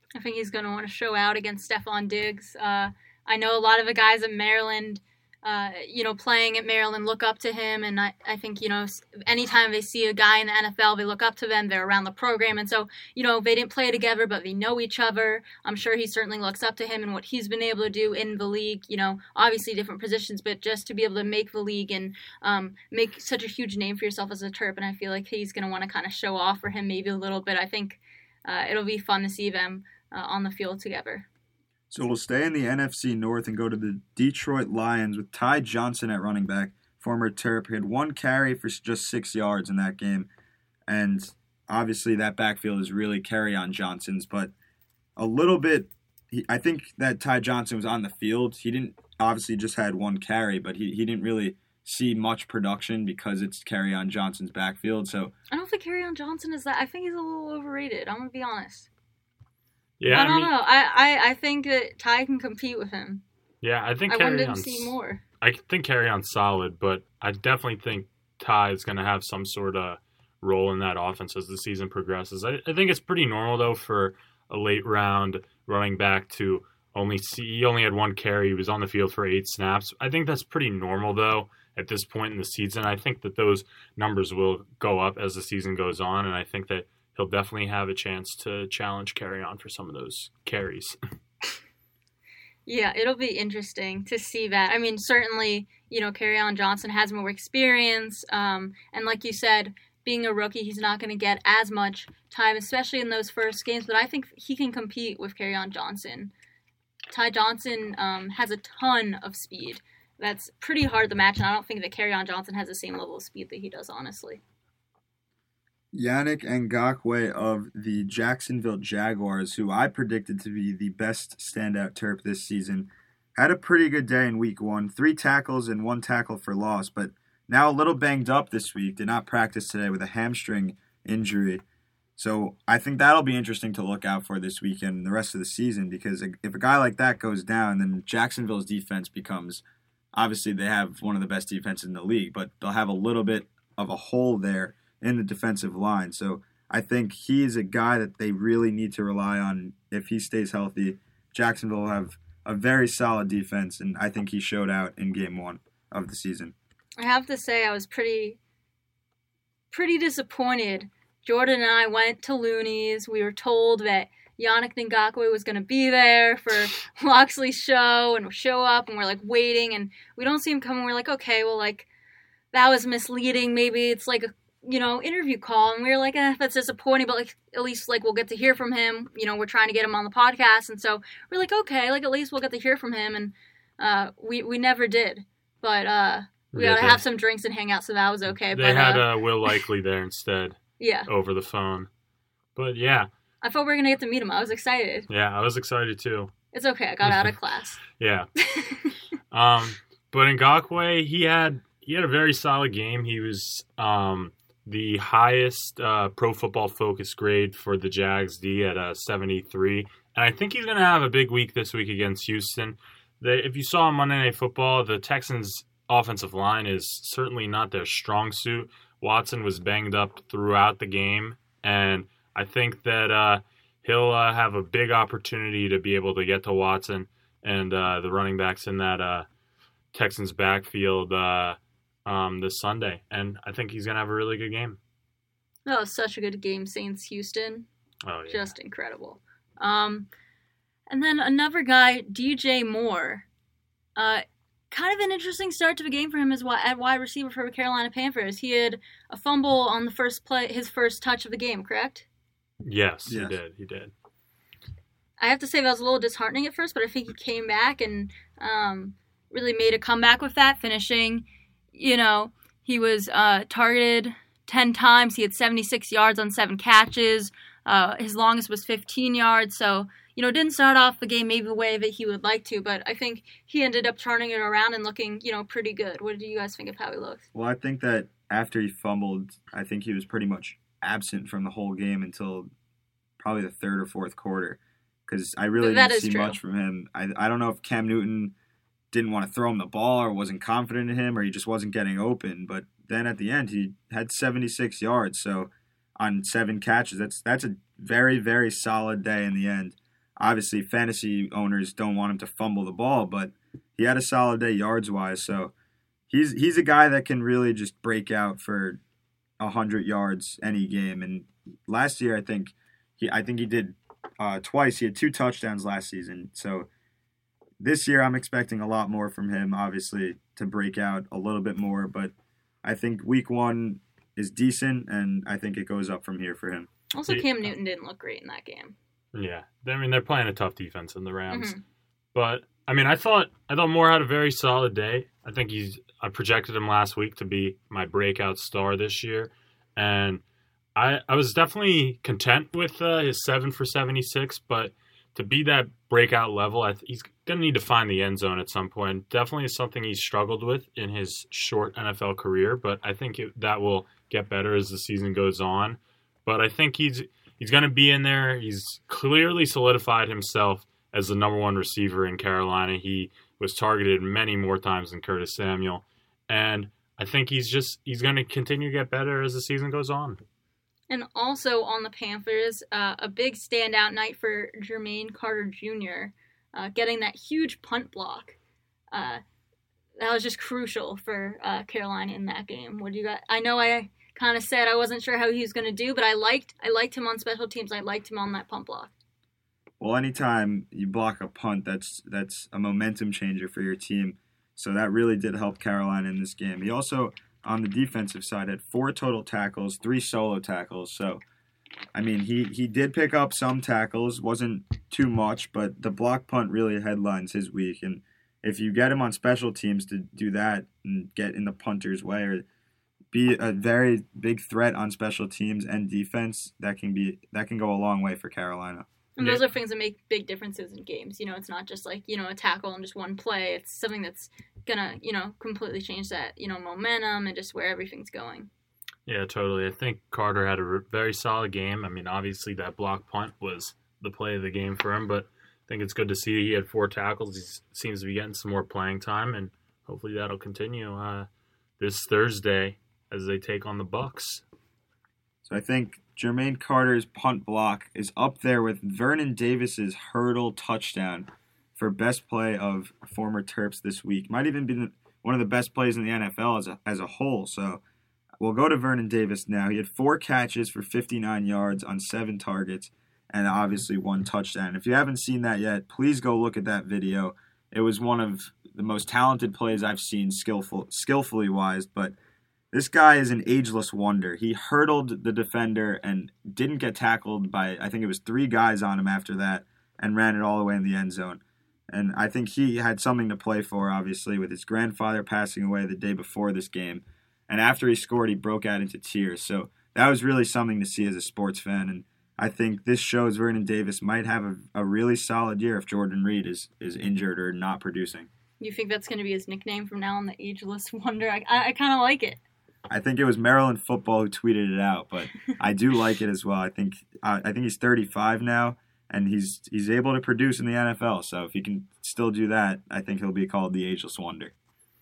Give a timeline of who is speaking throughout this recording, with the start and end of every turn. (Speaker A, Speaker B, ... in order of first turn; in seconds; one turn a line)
Speaker A: 0.1-31.3
Speaker B: 31.9-40.3
Speaker B: 40.9-44.5
Speaker B: 45.2-55.3
Speaker A: 55.5-58.9
Speaker C: 60.0-60.5
Speaker A: 60.1-63.2
Speaker C: 63.6-91.0
Speaker A: 64.1-65.2
Speaker A: 92.7-106.3
Speaker A: 107.1-114.4
Speaker B: 115.9-131.6
Speaker B: 132.2-139.6
Speaker B: 140.1-156.6
Speaker A: 157.0-158.4
Speaker A: 159.7-171.9
Speaker A: 172.5-189.1
Speaker C: 186.5-187.0
Speaker C: 188.5-191.9
Speaker A: 190.8-191.1
Speaker C: 192.6-193.1
Speaker A: 193.4-195.1
Speaker C: 195.1-196.3
Speaker A: 196.5-197.8
Speaker C: 197.0-197.3
Speaker C: 197.9-198.3
Speaker A: 198.5-198.9
Speaker C: 199.3-229.3
Speaker C: 229.9-234.8
Speaker A: 235.7-237.7
Speaker C: 238.0-238.5
Speaker A: 238.3-240.1
Speaker A: 240.9-243.3
Speaker A: 244.0-252.1
Speaker C: 252.6-253.9
Speaker B: 253.1-253.4
Speaker A: 255.2-277.2
Speaker B: 277.3-282.5
Speaker B: 283.2-288.3
Speaker A: 285.6-286.4
Speaker B: 288.9-305.5
Speaker B: 306.1-308.8
Speaker B: 309.4-316.7
Speaker B: 317.6-322.1
Speaker B: 322.6-326.7
Speaker A: 326.9-328.8
Speaker C: 327.1-327.5
Speaker C: 329.1-331.5
Speaker A: 331.3-331.6
Speaker C: 332.1-340.2
Speaker C: 340.8-370.2
Speaker A: 370.9-378.4
Speaker A: 378.9-379.2
Speaker A: 380.0-388.9
Speaker B: 389.8-401.2
Speaker B: 401.9-412.4
Speaker B: 413.1-418.9
Speaker A: 419.2-428.5
Speaker C: 429.1-441.3
Speaker C: 441.8-444.4
Speaker B: 445.4-457.8
Speaker B: 458.4-472.1
Speaker B: 472.7-498.3
Speaker A: 498.6-502.4
Speaker B: 502.9-514.5